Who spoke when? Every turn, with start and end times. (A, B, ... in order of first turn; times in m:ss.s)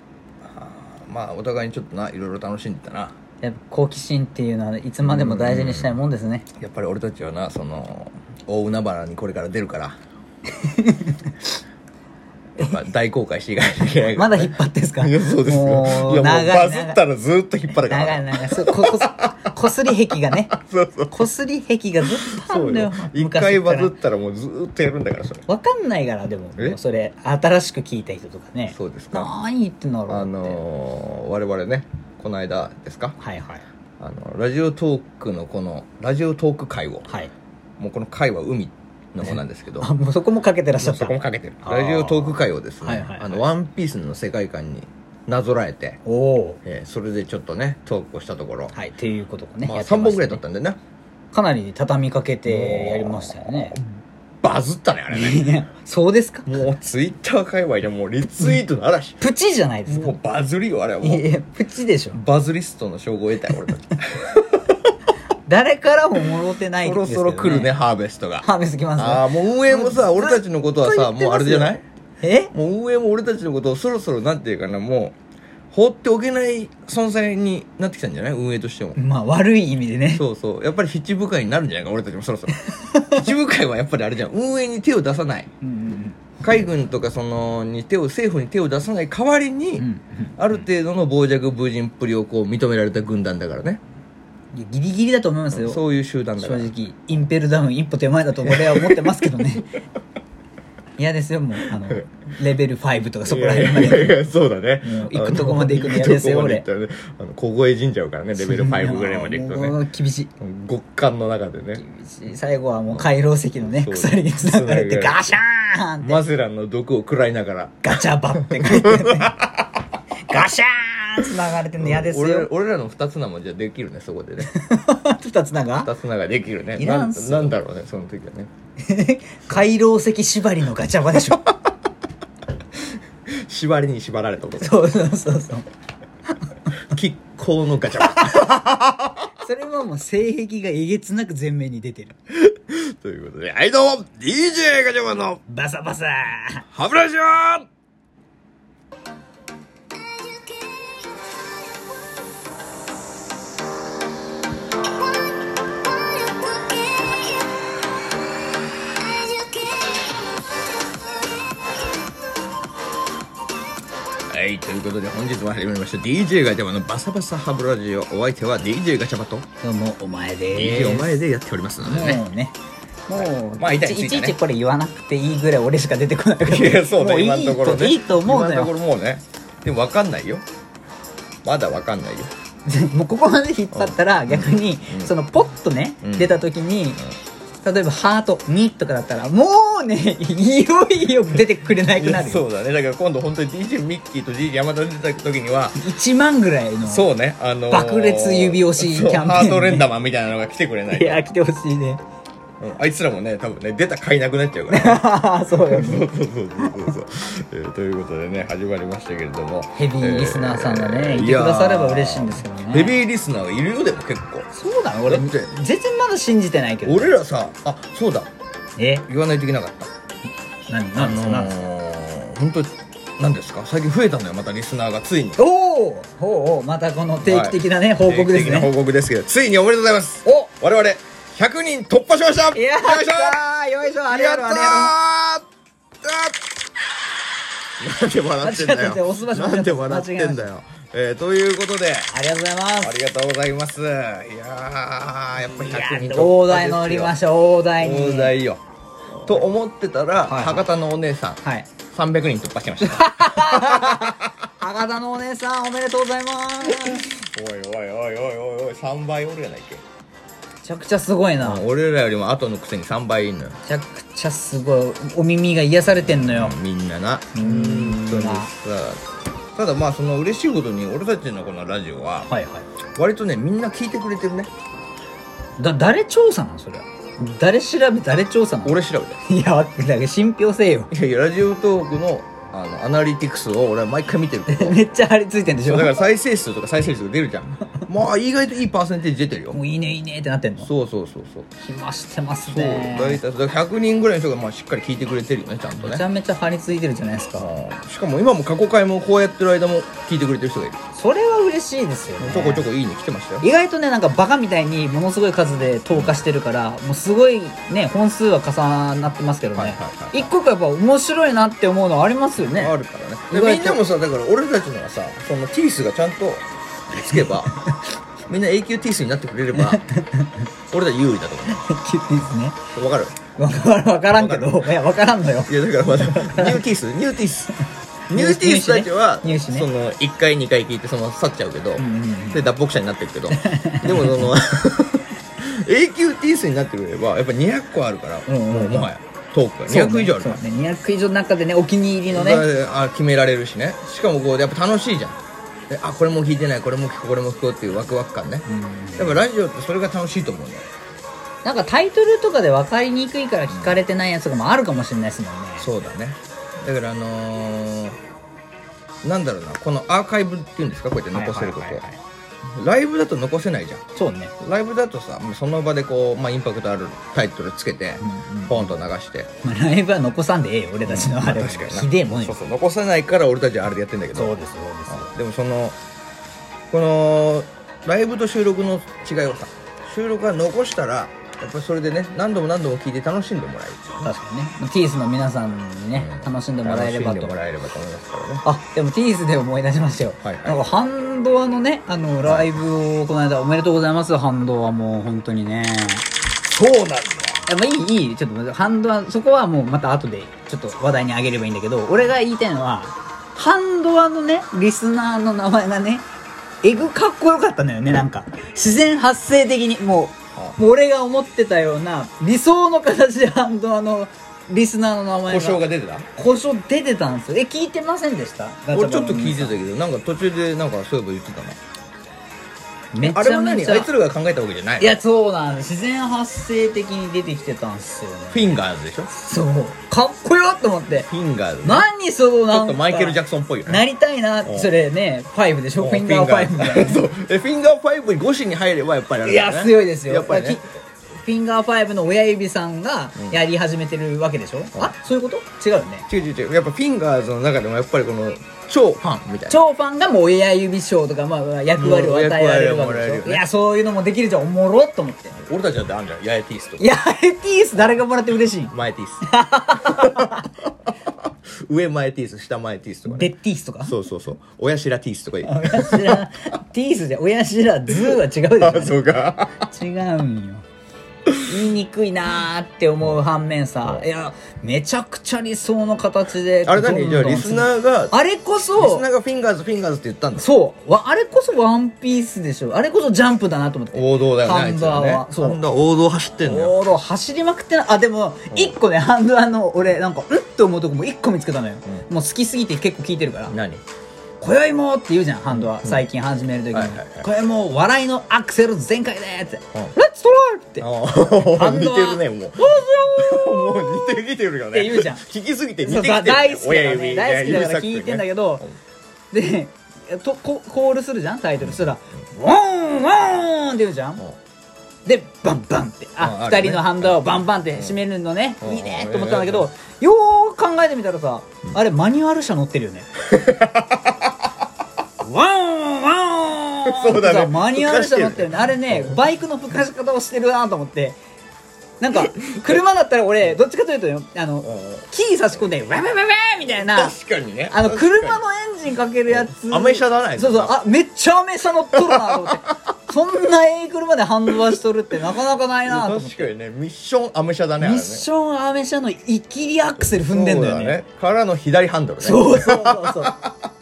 0:00.4-0:03.2 A
0:03.4-0:06.5 B
0:05.0-0:06.0 A
0:06.5-0:10.0 A
0:10.6-0:11.3 B
0:12.6-0:21.2 A
0:14.1-0:17.0 B
0:17.7-0:20.5 B
0:21.1-0:24.0 B
0:22.0-0:25.4 A
0:25.5-0:30.6 B
0:26.5-0:26.8 A
0:28.7-0:29.4 A
0:30.1-0:33.2 A
0:33.2-0:33.6 B
0:34.0-0:37.2 A
0:37.8-0:39.9 A
0:39.2-0:43.5 B
0:40.8-0:46.0 A
0:46.0-0:46.6 B
0:46.6-0:48.7 A
0:48.7-0:50.4 B
0:49.6-0:50.8 A
0:51.3-0:53.8 B
0:52.4-0:53.8 A
0:54.4-0:55.6 A
0:55.1-0:56.6 B
0:56.4-0:59.2 A
0:59.2-1:00.2 B
0:59.9-1:01.3 A
1:01.0-1:02.2 B
1:02.1-1:04.9 A
1:05.4-1:07.7 B
1:06.2-1:08.5 A
1:08.4-1:12.5 B
1:09.0-1:11.8 A
1:12.5-1:15.2 A
1:15.7-1:19.0 A
1:18.9-1:20.2 B
1:20.1-1:22.6 A
1:22.6-1:23.3 B
1:23.1-1:25.5 A
1:25.6-1:26.4 B
1:26.4-1:33.8 A
1:29.8-1:30.4 B
1:34.5-1:35.9 B
1:35.5-1:36.7 A
1:36.4-1:39.7 B
1:38.4-1:39.6 A
1:41.0-1:44.2 B
1:41.6-1:42.1 A
1:43.2-1:49.8 A
1:44.8-1:46.6 B
1:48.4-1:50.3 B
1:50.4-1:51.8 A
1:51.8-1:56.2 B
1:52.9-1:55.4 A
1:56.0-1:59.8 A
1:57.8-1:59.4 B
2:00.3-2:02.5 B
2:01.2-2:04.5 A
2:04.4-2:05.9 B
2:05.8-2:08.5 A
2:06.8-2:07.5 B
2:08.8-2:11.4 B
2:13.3-2:15.0 A
2:14.6-2:15.6 B
2:16.9-2:19.0 A
2:18.1-2:18.7 B
2:19.4-2:22.1 B
2:22.3-2:25.4 A
2:25.5-2:26.7 B
2:26.7-2:27.7 A
2:44.3-2:49.5 A
2:49.6-2:51.2 B
2:50.5-2:52.3 A
2:51.8-2:52.5 B
2:53.1-2:58.7 B
2:53.1-2:54.4 A
2:56.4-3:00.4 A
3:01.4-3:02.3 A
3:02.6-3:07.0 B
3:03.7-3:05.2 A
3:06.0-3:06.5 A
3:07.6-3:12.5 B
3:11.8-3:15.8 A
3:15.7-3:17.1 B
3:16.8-3:21.3 A
3:17.7-3:19.9 B
3:20.9-3:22.0 B
3:22.6-3:34.5 A
3:24.7-3:26.1 B
3:29.7-3:33.0 B
3:34.5-3:37.2 B
3:35.1-3:35.5 A
3:36.8-3:38.3 A
3:38.8-3:39.0 B
3:39.1-3:39.9 A
3:40.7-3:41.5 B
3:40.9-3:45.4 A
3:45.4-3:48.7 B
3:47.2-3:55.5 A
3:50.2-3:50.5 B
3:52.5-3:54.9 B
3:56.0-3:56.4 A
3:57.8-4:02.1 A
3:58.4-4:00.5 B
4:02.1-4:03.0 B
4:02.8-4:07.2 A
4:05.4-4:08.3 B
4:07.8-4:08.6 A
4:09.2-4:14.3 A
4:10.2-4:10.7 B
4:11.4-4:11.8 B
4:12.8-4:17.1 B
4:17.0-4:19.8 A
4:20.6-4:21.6 B
4:21.4-4:23.6 A
4:23.6-4:26.6 B
4:25.8-4:29.0 A
4:27.3-4:28.5 B
4:29.5-4:32.3 A
4:32.3-4:32.6 B
4:32.9-4:34.5 A
4:35.6-4:40.9 B
4:38.6-4:39.2 A
4:40.9-4:44.8 A
4:44.5-4:46.0 B
4:45.6-4:49.6 A
4:49.5-4:50.7 B
4:50.6-4:51.5 A
4:51.6-4:53.2 B
4:52.4-4:56.0 A
4:55.8-4:57.5 B
4:57.4-5:00.8 A
5:00.9-5:02.7 B
5:02.2-5:03.5 A
5:03.4-5:12.7 B
5:05.9-5:06.2 A
5:09.5-5:10.3 A
5:12.5-5:17.6 A
5:13.3-5:13.8 B
5:16.9-5:17.7 B
5:18.3-5:19.8 A
5:19.5-5:20.4 B
5:20.7-5:21.6 A
5:21.5-5:22.7 B
5:22.7-5:23.2 A
5:23.3-5:26.7 B
5:24.1-5:24.8 A
5:25.4-5:27.6 A
5:28.1-5:29.7 B
5:28.1-5:40.4 A
5:31.8-5:32.4 B
5:33.3-5:34.4 B
5:38.3-5:38.9 B
5:39.6-5:42.4 B
5:42.1-5:48.4 A
5:48.5-5:49.2 B
5:49.0-5:50.7 A
5:51.4-5:55.7 B
5:53.5-5:53.8 A
5:55.6-5:58.0 A
5:59.0-6:01.9 A
6:01.1-6:02.0 B
6:02.4-6:03.8 A
6:03.9-6:04.3 B
6:04.4-6:09.3 A
6:08.0-6:08.7 B
6:09.4-6:12.4 B
6:10.8-6:14.4 A
6:14.1-6:15.1 B
6:14.9-6:15.8 A
6:16.7-6:24.1 A
6:24.0-6:27.3 B
6:25.9-6:28.4 A
6:28.4-6:36.1 B
6:30.2-6:30.6 A
6:32.2-6:32.5 A
6:36.5-6:37.4 A
6:37.5-6:46.1 B
6:46.6-6:55.6 B
6:55.2-6:56.1 A
6:56.1-6:59.6 B
6:58.7-7:01.6 A
7:02.9-7:03.9 B
7:03.0-7:05.0 A
7:04.8-7:17.1 B
7:08.3-7:09.1 A
7:11.1-7:11.9 A
7:12.4-7:13.8 A
7:14.4-7:14.7 A
7:15.8-7:20.6 A
7:19.2-7:26.0 B
7:23.1-7:23.4 A
7:26.1-7:29.6 A
7:29.5-7:35.4 B
7:31.7-7:33.4 A
7:35.3-7:36.9 A
7:36.8-7:40.5 B
7:38.7-7:40.4 A
7:41.2-7:46.3 A
7:43.0-7:44.0 B
7:45.4-7:50.6 B
7:48.0-7:49.7 A
7:51.4-7:59.1 B
7:53.8-7:54.1 A
7:56.6-8:00.5 A
8:00.4-8:05.6 B
8:03.9-8:06.8 A
8:06.4-8:13.6 B
8:08.5-8:08.8 A
8:13.5-8:13.8 A
8:14.4-8:24.2 B
8:15.5-8:16.0 A
8:16.7-8:17.3 A
8:20.8-8:28.8 A
8:24.7-8:25.2 B
8:25.8-8:28.6 B
8:29.3-8:34.2 B
8:31.6-8:31.9 A
8:35.0-8:43.1 B
8:36.2-8:38.0 A
8:38.6-8:39.7 A
8:43.2-8:44.3 A
8:45.2-8:51.2 B
8:46.8-8:49.2 A
8:52.0-8:57.1 B
8:52.2-8:52.8 A
8:54.6-8:55.7 A
8:56.7-8:58.4 A
8:57.7-9:06.5 B
8:59.3-9:00.8 A
9:01.9-9:02.8 A
9:05.4-9:08.3 A
9:07.8-9:11.0 B
9:10.0-9:13.5 A
9:12.2-9:13.4 B